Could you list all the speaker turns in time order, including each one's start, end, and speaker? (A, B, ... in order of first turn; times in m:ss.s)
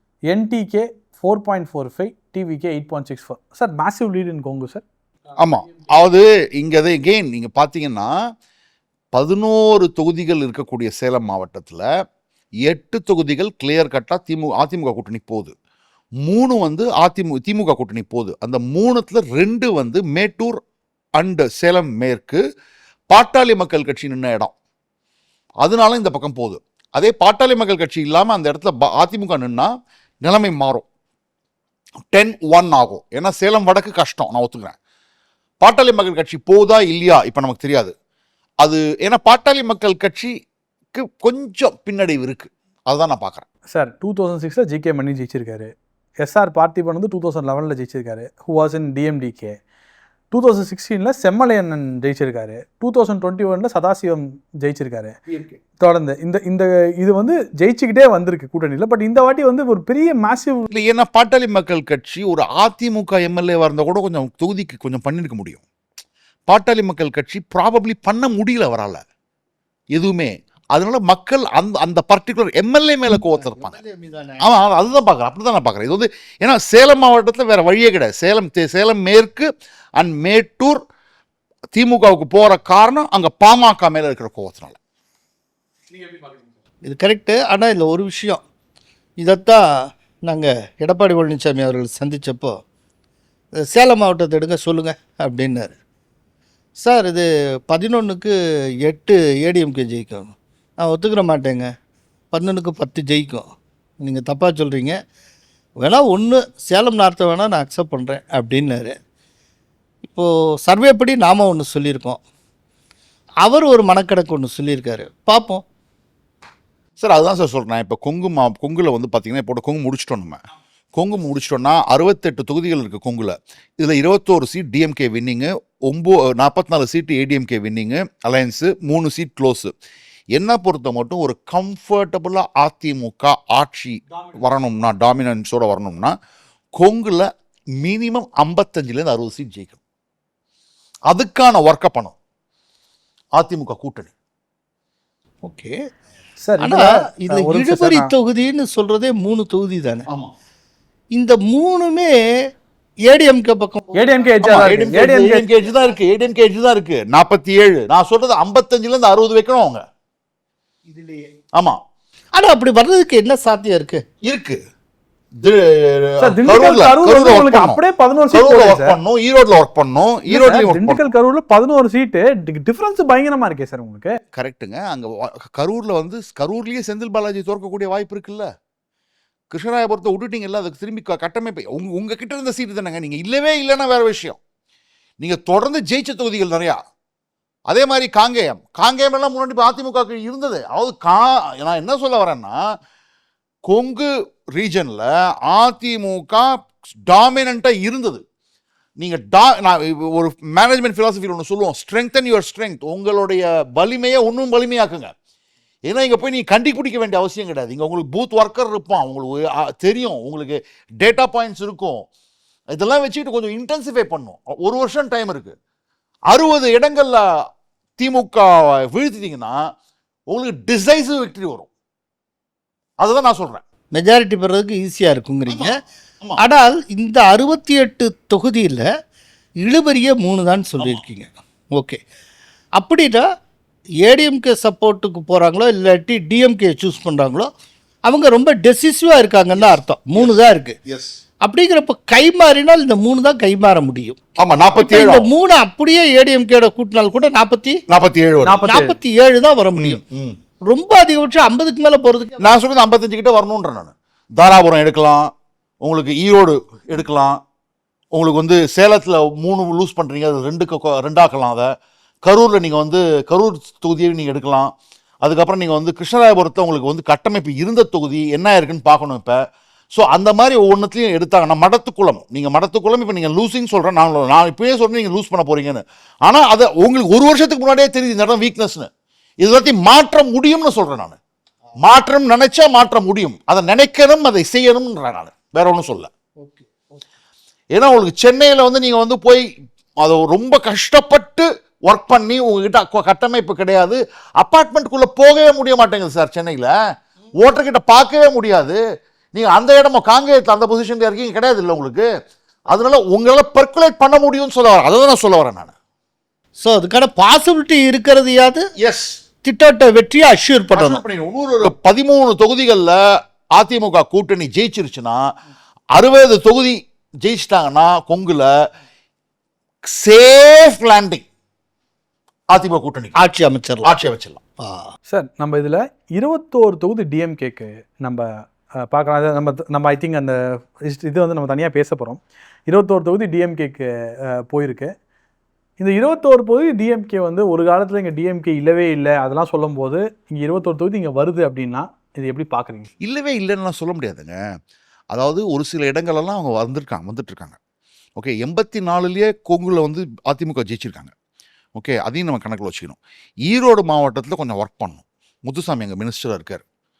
0:00.3-0:04.8 A
0:05.4-0:08.1 B
0:09.1-0:11.9 B
0:12.6-0:15.5 B
0:16.2-0:20.6 B
0:21.2-0:22.4 B
0:23.1-0:24.5 B
0:25.6-0:29.7 B
0:30.2-0:30.9 B
0:32.1-0:34.8 B
0:35.6-0:37.9 B
0:38.6-0:40.3 B
0:40.9-0:43.4 B
0:43.7-0:49.6 A
0:50.3-0:55.2 A
0:55.3-0:55.6 B
0:55.8-1:00.7 A
1:00.7-1:05.6 B
1:06.5-1:09.0 B
1:09.9-1:13.8 B
1:13.2-1:14.4 C
1:14.4-1:20.8 B
1:21.7-1:24.8 B
1:26.8-1:28.4 C
1:29.2-1:32.6 C
1:33.6-1:35.8 C
1:36.8-1:41.7 C
1:42.3-1:43.5 C
1:44.0-1:45.0 C
1:45.8-1:49.0 C
1:50.0-1:52.2 C
1:53.4-1:55.6 C
1:57.0-2:00.4 B
2:00.9-2:09.7 B
2:10.3-2:16.2 B
2:16.8-2:19.8 B
2:21.1-2:22.2 B
2:23.4-2:24.1 B
2:25.4-2:25.8 C
2:26.4-2:28.1 A
2:26.6-2:30.1 C
2:30.1-2:30.3 B
2:31.2-2:32.2 C
2:33.1-2:34.1 C
2:34.0-2:35.5 A
2:34.4-2:39.8 B
2:40.9-2:41.3 C
2:41.5-2:41.8 B
2:42.3-2:44.0 C
2:44.2-2:44.6 B
2:45.4-2:47.8 B
2:46.2-2:49.0 A
2:48.3-2:51.0 B
2:50.3-2:54.2 A
2:54.3-2:58.5 B
2:59.5-3:04.4 B
3:05.2-3:06.8 B
3:07.7-3:12.6 B
3:13.7-3:18.2 B
3:19.0-3:25.1 B
3:25.9-3:32.0 B
3:32.7-3:35.6 B
3:36.3-3:37.2 B
3:38.0-3:39.7 B
3:40.3-3:41.7 B
3:43.0-3:43.6 B
3:43.9-3:45.8 C
3:45.5-3:46.4 B
3:46.4-3:48.9 C
3:49.6-3:52.0 C
3:52.8-3:53.3 C
3:54.0-3:57.5 C
3:58.1-4:00.8 C
4:00.9-4:01.2 B
4:01.4-4:04.2 C
4:04.4-4:05.3 B
4:04.8-4:07.8 C
4:07.9-4:08.6 B
4:08.4-4:09.0 A
4:08.6-4:10.0 C
4:09.8-4:10.4 B
4:10.7-4:12.4 C
4:12.4-4:17.4 B
4:18.1-4:21.7 B
4:22.2-4:29.4 B
4:29.9-4:38.9 B
4:39.4-4:41.2 B
4:41.8-4:46.1 B
4:46.4-4:46.6 C
4:47.7-4:49.5 B
4:50.0-4:56.7 B
4:57.4-4:58.8 B
4:59.3-5:02.1 B
5:02.7-5:05.7 B
5:06.6-5:08.7 C
5:08.8-5:09.2 B
5:09.4-5:11.0 C
5:10.7-5:13.0 B
5:13.6-5:15.2 B
5:15.9-5:18.5 B
5:19.9-5:21.2 B
5:22.5-5:23.2 B
5:23.2-5:23.9 C
5:23.8-5:24.4 B
5:24.6-5:24.9 C
5:25.1-5:34.9 A
5:35.8-5:42.9 A
5:43.0-5:44.4 B
5:45.1-5:47.6 B
5:48.2-5:51.1 B
5:51.8-5:56.6 B